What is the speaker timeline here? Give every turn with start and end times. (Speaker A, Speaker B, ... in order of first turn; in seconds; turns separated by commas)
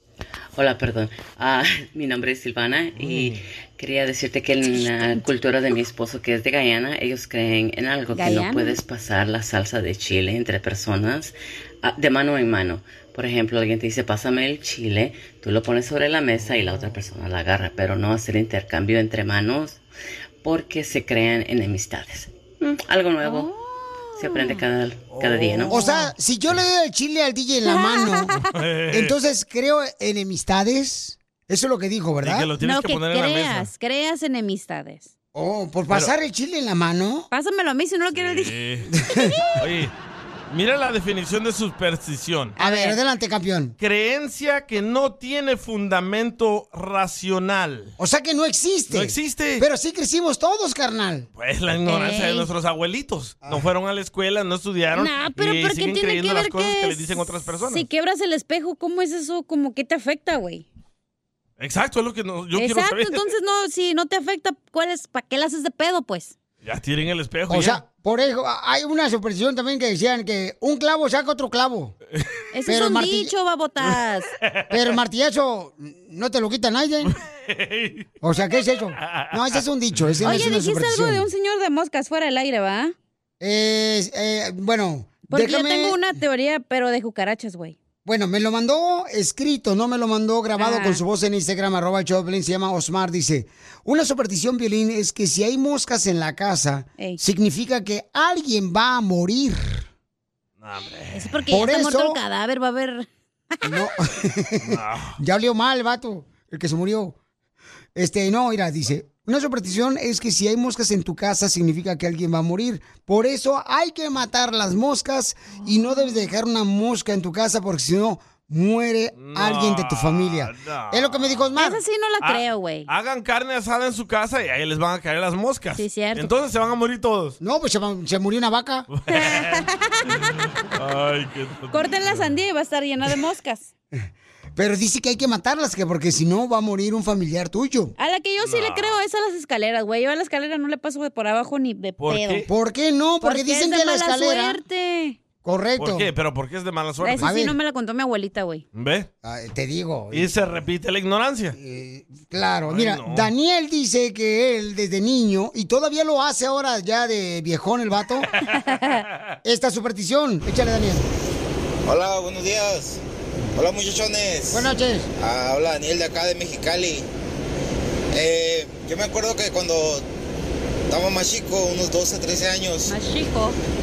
Speaker A: 0.6-19.8, Speaker B: 8.1-8.8, Speaker A: 20.4-23.5, Speaker B: 23.2-23.6, Speaker B: 24.2-24.6, Speaker A: 24.2-25.8, Speaker C: 25.1-25.8, Speaker D: 25.7-28.4, Speaker B: 27.7-28.4, Speaker C: 28.5-29.2, Speaker D: 28.9-32.5, Speaker C: 32.2-33.7, Speaker B: 32.6-35.1, Speaker D: 35.3-37.3, Speaker B: 37.3-38.5, Speaker C: 38.1-38.9, Speaker D: 39.1-39.4, Speaker C: 39.6-39.9, Speaker C: 40.5-42.6, Speaker B: 42.6-43.0, Speaker D: 42.6-43.8, Speaker C: 43.8-47.9, Speaker D: 48.0-51.3, Speaker C: 48.9-49.6, Speaker C: 51.4-57.9, Speaker B: 51.9-52.5, Speaker B: 55.0-60.7, Speaker C: 61.6-63.3, Speaker B: 62.6-66.3, Speaker C: 66.6-67.8, Speaker D: 67.5-72.0, Speaker B: 72.5-74.3, Speaker D: 72.7-73.3, Speaker C: 74.5-74.7, Speaker D: 74.7-77.1, Speaker C: 77.1-78.1, Speaker D: 78.2-81.3, Speaker C: 79.0-80.1, Speaker B: 80.2-83.0, Speaker D: 83.4-86.0, Speaker B: 85.3-87.8, Speaker D: 88.0-99.8, Speaker B: 90.6-91.0, Speaker C: 100.6-101.3, Speaker B: 101.1-103.1, Speaker D: 101.5-102.2, Speaker D: 103.6-107.2, Speaker C: 104.6-105.2, Speaker D: 108.0-121.8, Speaker C: 119.2-121.5, Speaker B: 121.6-122.9, Speaker C: 122.2-127.4, Speaker B: 125.8-126.3, Speaker D: 127.4-128.9, Speaker C: 128.9-129.7, Speaker B: 129.1-130.3, Speaker C: 130.7-132.3, Speaker B: 131.7-133.7, Speaker D: 134.6-137.9, Speaker B: 138.0-142.4, Speaker C: 138.4-139.0, Speaker C: 142.0-142.5, Speaker D: 142.5-144.6, Speaker B: 143.2-145.2, Speaker D: 145.4-146.1, Speaker C: 145.8-147.3, Speaker B: 147.0-148.6, Speaker D: 147.2-147.6, Speaker C: 148.8-149.1, Speaker D: 149.2-150.3, Speaker C: 150.1-151.6, Speaker D: 151.6-158.3, Speaker C: 152.7-153.3, Speaker D: 159.4-161.1, Speaker E: 161.9-163.0, Speaker E: 163.6-167.1, Speaker D: 164.5-165.1, Speaker E: 168.1-170.1, Speaker E: 170.9-173.0, Speaker B: 172.9-173.6